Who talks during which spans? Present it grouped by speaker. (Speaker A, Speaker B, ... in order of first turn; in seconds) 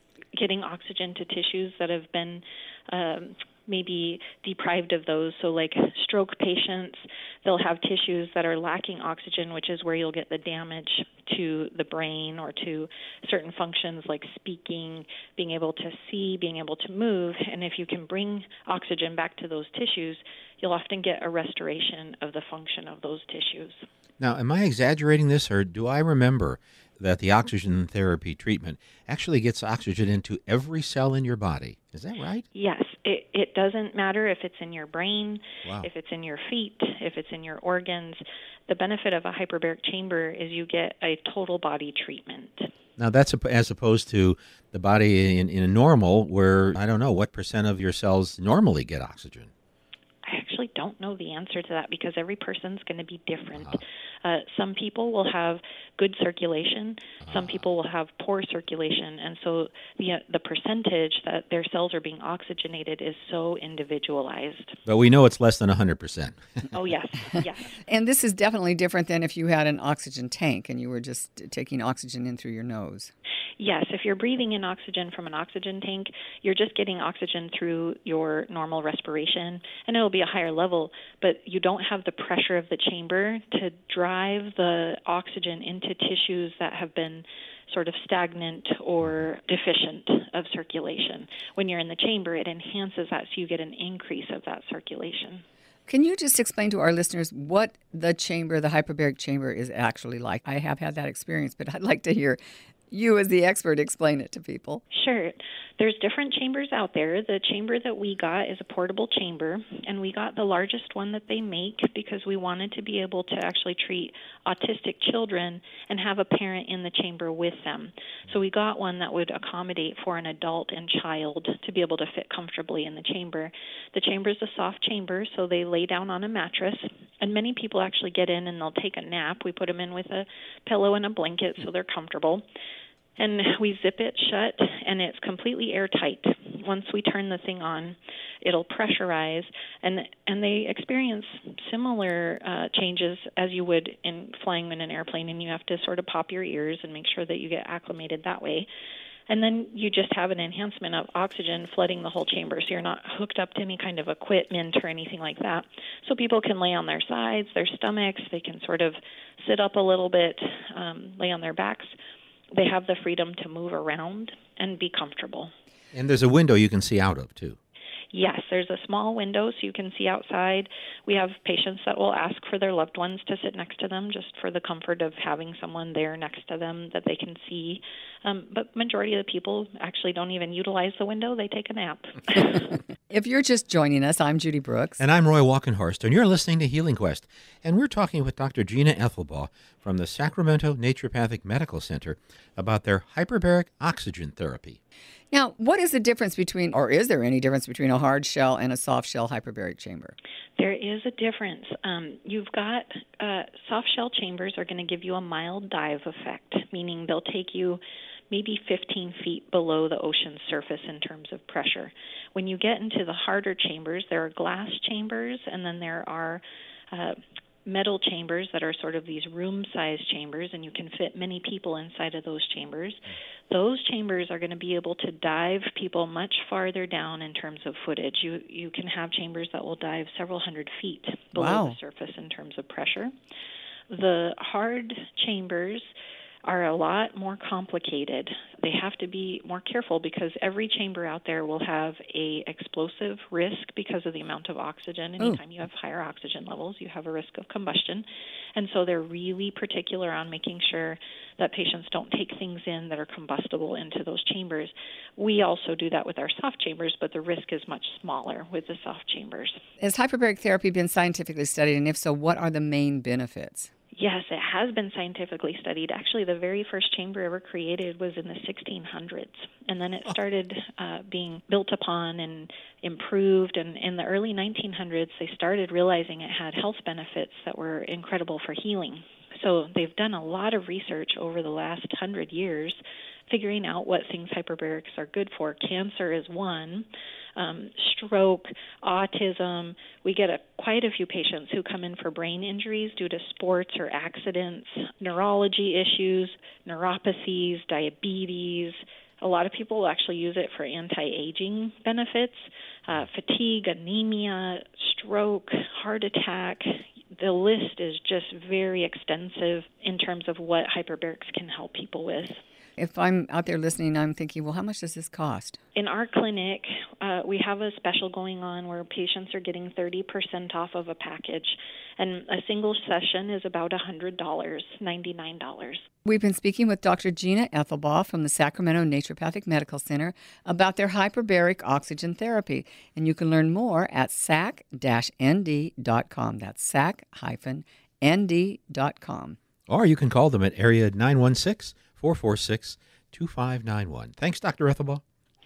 Speaker A: 0.3-23.8, 32.5-42.7, 50.2-64.8, 66.7-67.7, 73.6-95.4, 104.9-132.4, 133.2-148.7, 149.3-161.9, 162.5-165.5, 168.1-182.8, 200.6-233.1, 233.9-235.9, 236.4-259.6, 263.9-312.4, 315.7-325.8
Speaker B: 24.2-32.4, 43.0-49.5, 64.8-66.7, 165.9-167.6, 185.0-194.8, 339.7-345.0
Speaker C: 67.9-73.1, 95.9-102.4, 102.9-104.8, 183.1-185.0, 195.3-200.1, 231.3-231.8, 259.8-263.7, 312.8-315.6, 326.0-339.4